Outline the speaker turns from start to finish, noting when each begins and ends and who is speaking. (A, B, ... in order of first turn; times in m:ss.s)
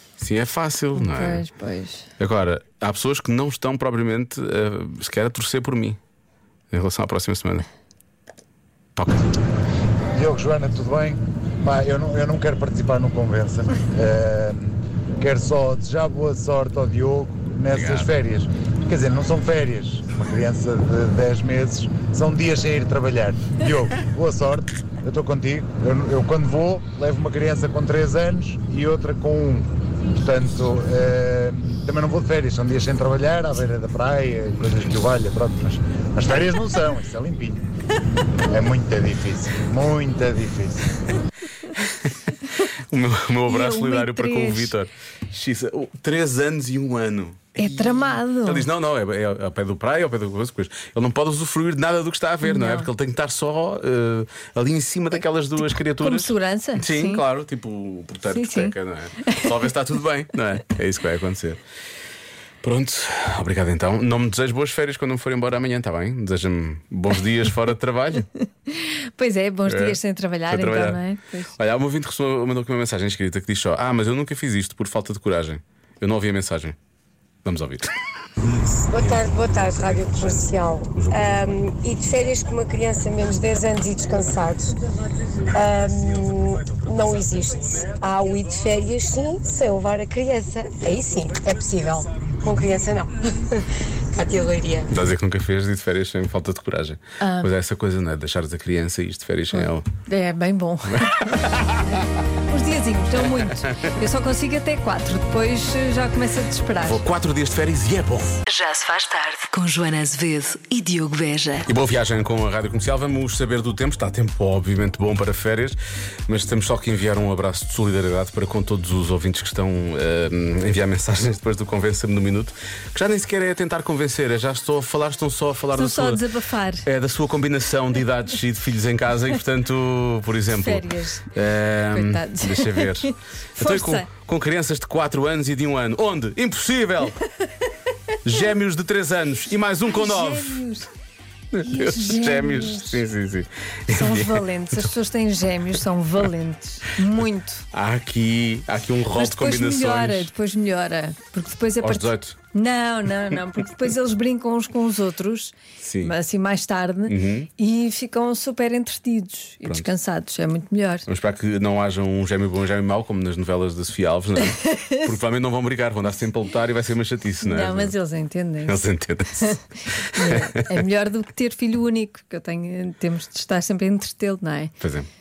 0:00.2-0:01.4 A
0:01.0-0:02.1 B
0:02.2-0:06.0 A
0:06.7-0:07.7 A
0:09.0-0:09.2 A
0:10.2-0:37.6 C
0:17.7-0:18.1 A
0:38.5-0:41.0 C
0:42.9-1:01.6 A
0:43.5-0:44.8 B
0:47.6-0:48.7 B
0:52.4-0:52.9 B
0:55.9-0:57.2 B
0:58.3-0:59.6 B
1:02.6-1:08.3 A
1:08.7-1:11.5 B
1:09.7-1:11.0 A
1:11.6-1:16.8 A
1:17.4-1:17.9 A
1:18.9-1:24.7 D
1:18.9-1:21.5 A
1:25.5-1:34.9 D
1:34.9-1:39.9 A
1:37.2-1:37.5 B
1:39.5-1:41.3 B
1:41.0-1:41.8 A
1:41.9-1:47.0 B
1:46.8-1:48.4 A
1:48.6-1:51.5 E
1:51.7-2:06.2 A
2:05.7-2:06.9 B
2:06.8-2:17.2 A
2:10.5-2:11.3 B
2:11.9-2:14.1 B
2:18.2-2:20.6 A
2:19.9-2:20.9 B
2:21.5-2:24.9 A
2:21.6-2:23.0 B
2:23.9-2:27.6 B
2:27.7-2:30.3 A
2:29.1-2:41.1 B
2:31.8-2:32.4 A
2:35.8-2:36.2 A
2:37.1-2:37.5 A
2:39.6-2:39.9 A
2:41.1-2:47.9 A
2:44.6-2:45.0 B
2:47.4-2:48.8 B
2:48.6-2:49.6 A
2:50.1-2:54.7 B
2:50.2-2:50.7 A
2:54.8-2:55.1 A